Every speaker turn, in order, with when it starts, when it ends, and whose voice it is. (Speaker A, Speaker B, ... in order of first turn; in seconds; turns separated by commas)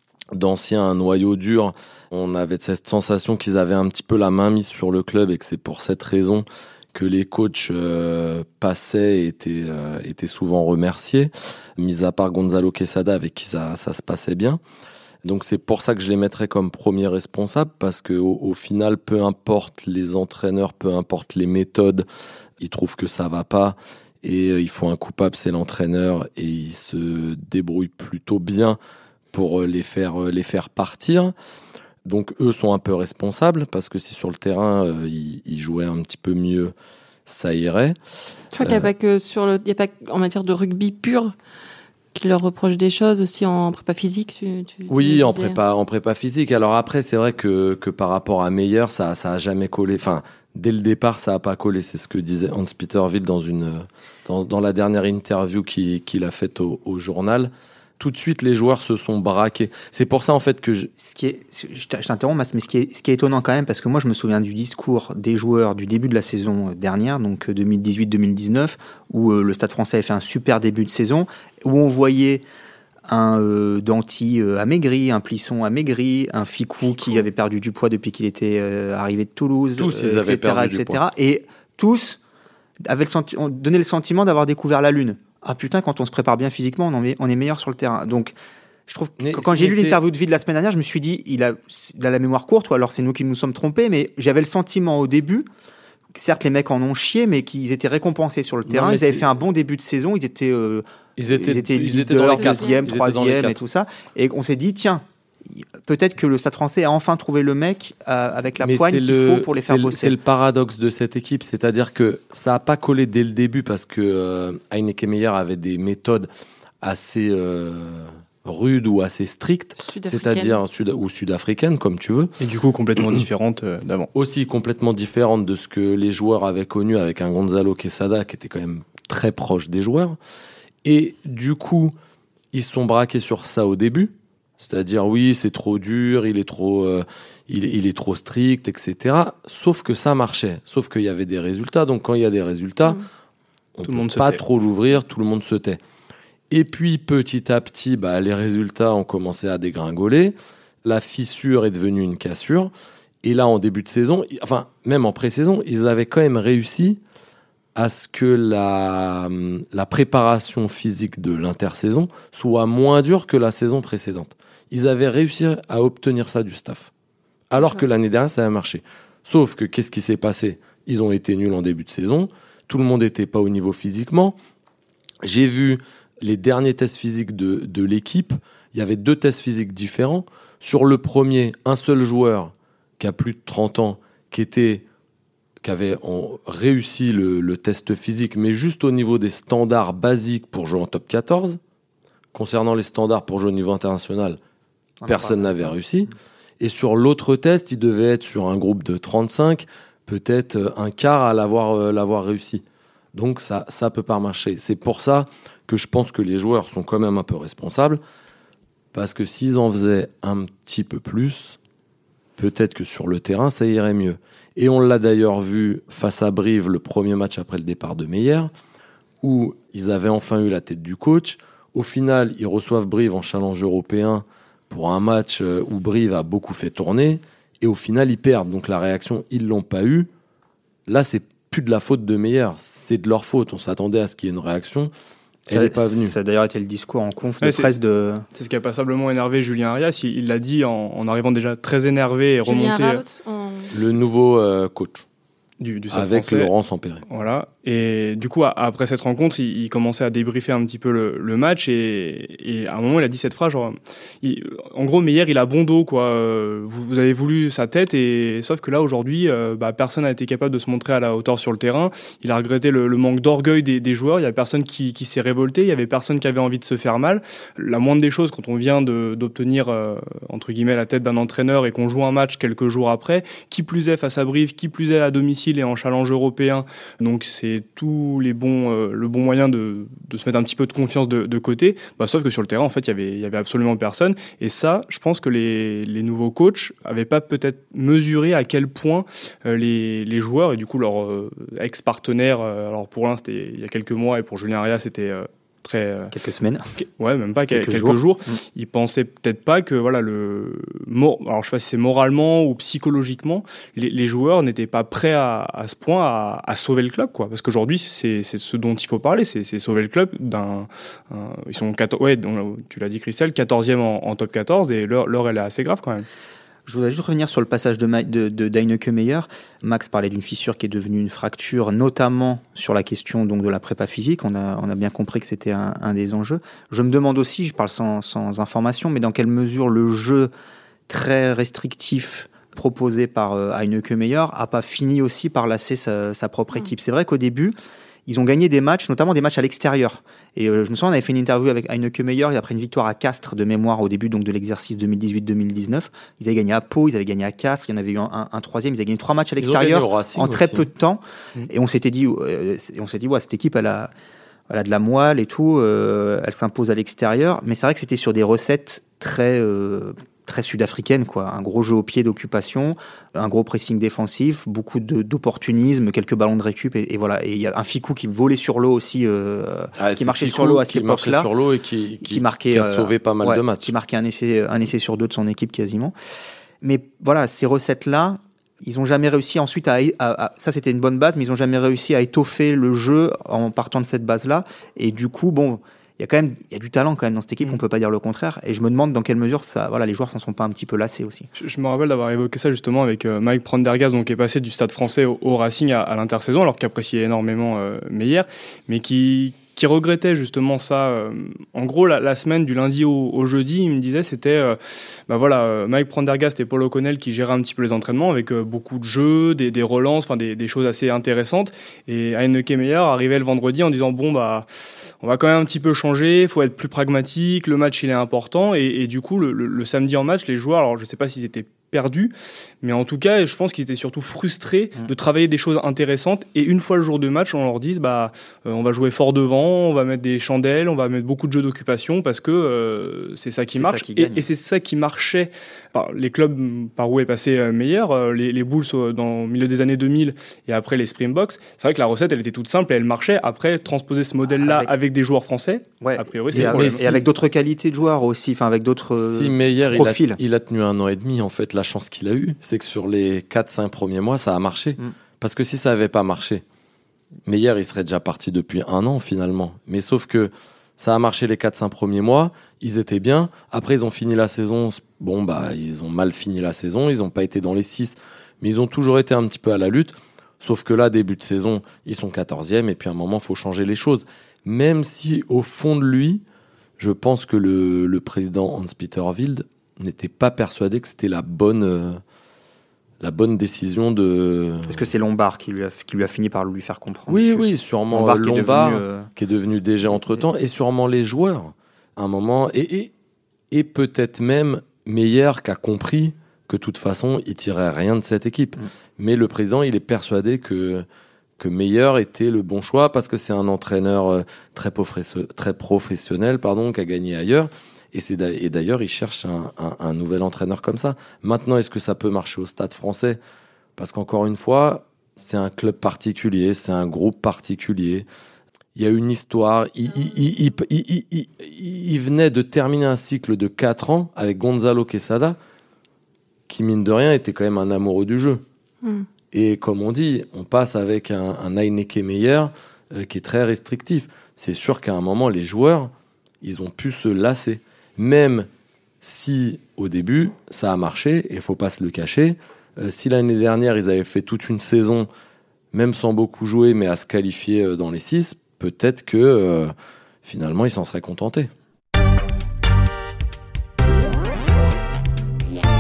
Speaker A: 0.3-14.6, Speaker A: 15.2-22.1, Speaker A: 22.6-28.8, Speaker A: 29.3-31.3, Speaker A: 32.0-36.7, Speaker A: 37.3-38.0, Speaker B: 38.5-41.3, Speaker A: 38.6-38.9, Speaker B: 42.1-45.6, Speaker A: 44.9-60.9, Speaker C: 61.0-72.5, Speaker C: 73.1-82.2, Speaker B: 76.9-77.2, Speaker A: 79.8-81.0, Speaker C: 82.8-88.3, Speaker C: 88.9-95.5, Speaker A: 89.2-90.0, Speaker C: 96.2-110.2, Speaker A: 98.7-99.2, Speaker A: 101.2-103.6, Speaker B: 102.2-102.9, Speaker A: 108.6-116.3, Speaker A: 116.8-122.3, Speaker B: 119.8-120.6, Speaker D: 122.4-124.1, Speaker A: 124.1-130.2, Speaker A: 130.8-131.9, Speaker A: 132.5-143.0, Speaker A: 143.8-145.8, Speaker D: 143.9-144.4, Speaker A: 146.5-152.7, Speaker A: 153.2-157.0, Speaker A: 157.8-166.9, Speaker A: 167.5-174.4, Speaker A: 175.2-184.8, Speaker A: 185.6-191.6, Speaker A: 192.3-194.4, Speaker C: 195.0-195.7, Speaker A: 195.1-202.6, Speaker A: 203.1-208.0, Speaker A: 208.9-211.6, Speaker A: 212.4-218.5, Speaker A: 219.2-230.1, Speaker A: 230.9-234.9, Speaker A: 235.5-236.2, Speaker C: 235.5-238.2, Speaker D: 237.4-237.7, Speaker D: 238.3-243.0, Speaker B: 242.4-243.7, Speaker A: 243.7-245.1, Speaker D: 245.6-246.5, Speaker A: 245.9-247.0, Speaker D: 247.1-296.1, Speaker C: 296.1-296.6, Speaker D: 296.8-316.1, Speaker C: 297.5-298.4, Speaker C: 316.7-330.3, Speaker C: 330.9-337.5, Speaker C: 338.1-353.9, Speaker A: 349.4-350.7, Speaker C: 354.5-371.3, Speaker A: 369.8-373.7, Speaker C: 372.0-375.9, Speaker C: 376.6-391.3, Speaker D: 391.4-414.5, Speaker D: 415.0-446.9, Speaker C: 433.5-434.2, Speaker C: 444.4-444.8, Speaker C: 445.8-450.2, Speaker A: 446.3-447.0, Speaker A: 448.9-456.4, Speaker A: 457.3-476.2, Speaker A: 476.8-482.0, Speaker A: 483.0-484.9, Speaker C: 484.7-489.1, Speaker A: 487.1-492.9, Speaker A: 493.5-500.9, Speaker A: 501.4-513.2, Speaker A: 513.8-518.1, Speaker A: 518.8-525.4, Speaker A: 526.5-528.4, Speaker A: 529.3-535.9, Speaker A: 536.4-538.5, Speaker A: 539.0-545.1, Speaker A: 545.7-549.7, Speaker A: 550.2-551.5